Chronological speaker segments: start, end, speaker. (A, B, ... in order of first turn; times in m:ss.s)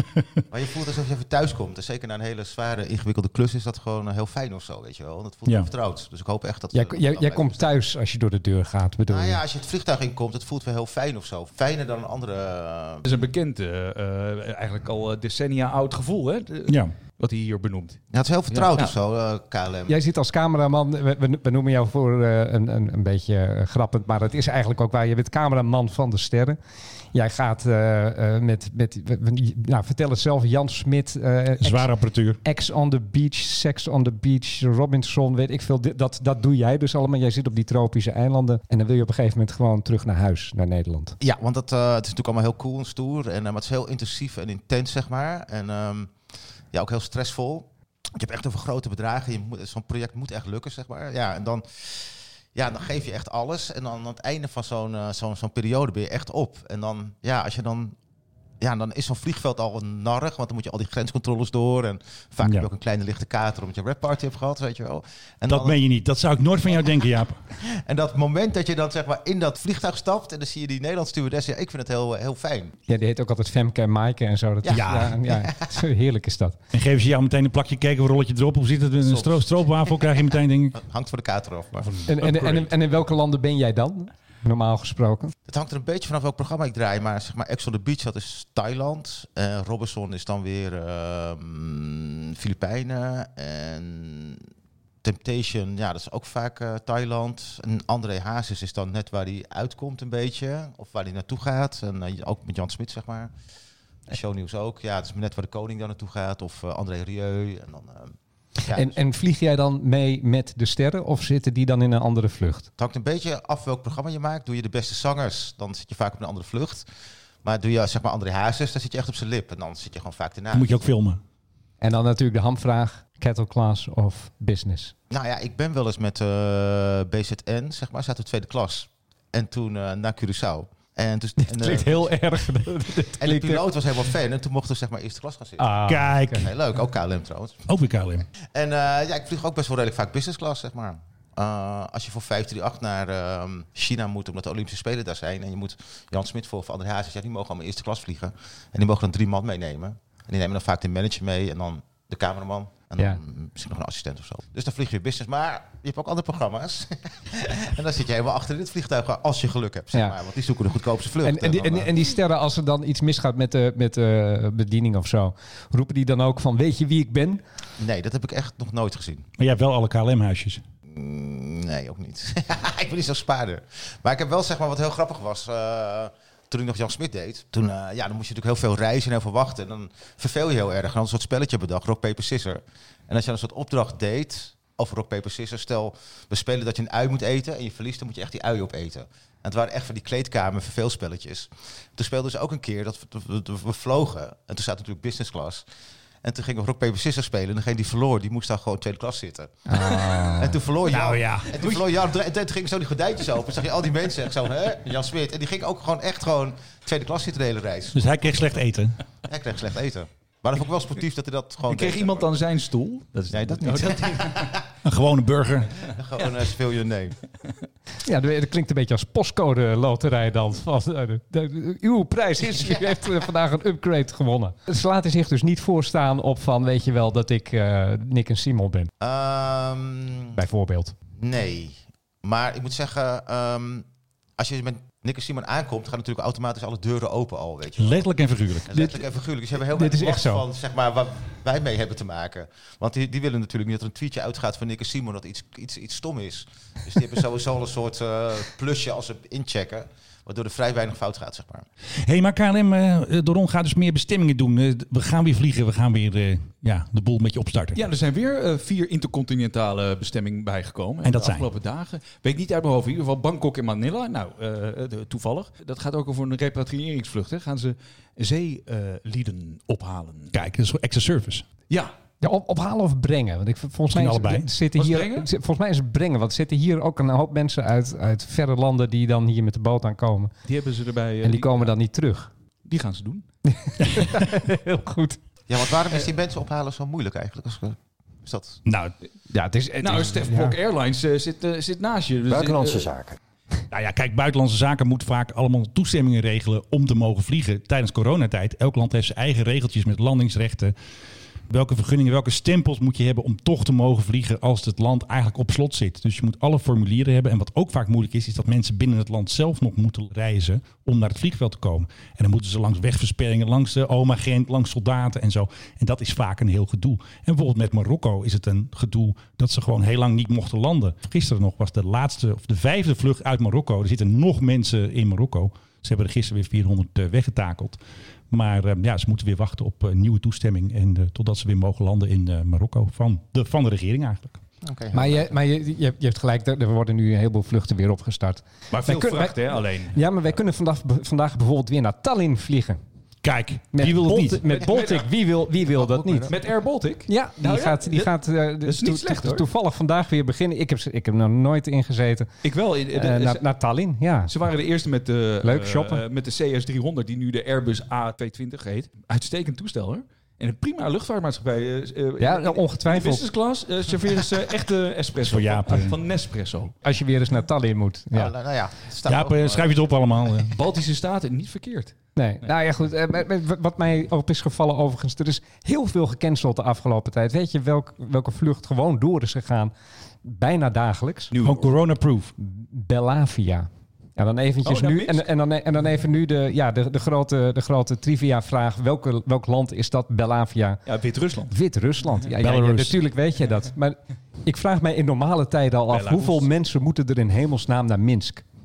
0:00.5-0:07.7 A
0:06.7-0:09.4 B
0:09.1-0:13.2 A
0:13.0-0:18.0 C
0:16.7-0:16.9 D
0:18.1-0:20.0 A
0:18.5-0:18.9 C
0:19.9-0:26.6 B
0:27.1-0:31.9 B
0:31.6-0:32.4 D
0:32.4-0:41.2 B
0:41.2-0:46.1 A
0:46.7-0:58.0 A
0:58.6-1:05.8 A
1:02.4-1:02.7 D
1:05.5-1:07.4 D
1:07.7-1:12.7 A
1:12.9-1:16.6 B
1:14.6-1:15.6 A
1:14.7-1:15.2 D
1:16.7-1:20.8 D
1:19.0-1:20.0 A
1:20.7-1:21.9 A
1:22.0-1:25.3 B
1:22.2-1:22.7 D
1:25.5-1:34.4 A
1:35.0-1:43.3 A
1:44.1-1:49.0 A
1:48.7-1:52.7 B
1:52.8-1:56.8 A
1:57.4-2:00.8 A
2:00.5-2:01.2 D
2:01.8-2:04.9 B
2:05.1-2:12.1 A
2:11.4-2:13.6 B
2:13.2-2:17.6 A
2:15.6-2:16.5 B
2:15.9-2:16.5 D
2:17.7-2:18.2 D
2:18.5-2:41.9 A
2:41.2-2:47.4 B
2:47.8-2:49.3 A
2:49.4-2:50.6 D
2:50.9-3:15.6 A
3:16.2-3:28.1 A
3:19.7-3:20.6 B
3:20.8-3:21.8 D
3:27.9-3:29.0 D
3:29.3-3:32.3 A
3:31.7-3:34.6 C
3:33.3-3:34.6 A
3:34.8-3:35.8 D
3:35.9-3:37.2 A
3:38.0-3:48.9 B
3:49.0-3:50.4 A
3:50.3-3:50.9 B
3:51.2-3:53.8 A
3:54.4-3:58.1 A
3:57.8-3:58.7 D
3:58.6-4:11.6 A
3:58.7-3:59.0 B
3:59.6-4:00.4 B
4:12.0-4:17.8 D
4:17.7-4:30.4 C
4:21.0-4:21.5 D
4:30.3-4:31.4 D
4:32.2-4:40.3 B
4:33.9-4:34.5 D
4:34.8-4:35.3 C
4:40.4-4:41.7 C
4:41.2-4:42.3 B
4:42.6-4:43.2 C
4:43.4-4:45.2 B
4:45.5-4:48.6 A
4:48.6-4:48.9 D
4:49.3-4:50.6 B
4:49.8-4:53.0 C
4:53.7-5:00.7 D
5:01.5-5:27.8 D
5:28.3-5:34.4 D
5:34.6-5:35.3 A
5:34.9-5:42.8 B
5:38.7-5:40.0 C
5:43.2-5:44.5 D
5:43.7-5:46.3 B
5:44.5-5:45.1 C
5:45.8-5:46.3 A
5:46.3-5:48.1 C
5:47.1-5:52.3 B
5:48.6-5:49.4 C
5:52.4-5:53.5 C
5:52.9-5:54.3 B
5:54.3-6:06.7 C
5:55.4-5:56.0 B
6:02.2-6:03.2 B
6:05.2-6:06.0 D
6:06.8-6:08.3 B
6:08.1-6:09.8 A
6:09.0-6:10.5 D
6:10.5-6:11.9 C
6:12.2-6:19.7 B
6:20.2-6:21.3 B
6:21.3-6:21.7 C
6:21.4-6:22.3 D
6:22.4-6:30.8 B
6:24.6-6:25.3 C
6:30.8-6:31.5 C
6:31.5-6:38.4 B
6:32.4-6:33.0 D
6:35.9-6:36.5 C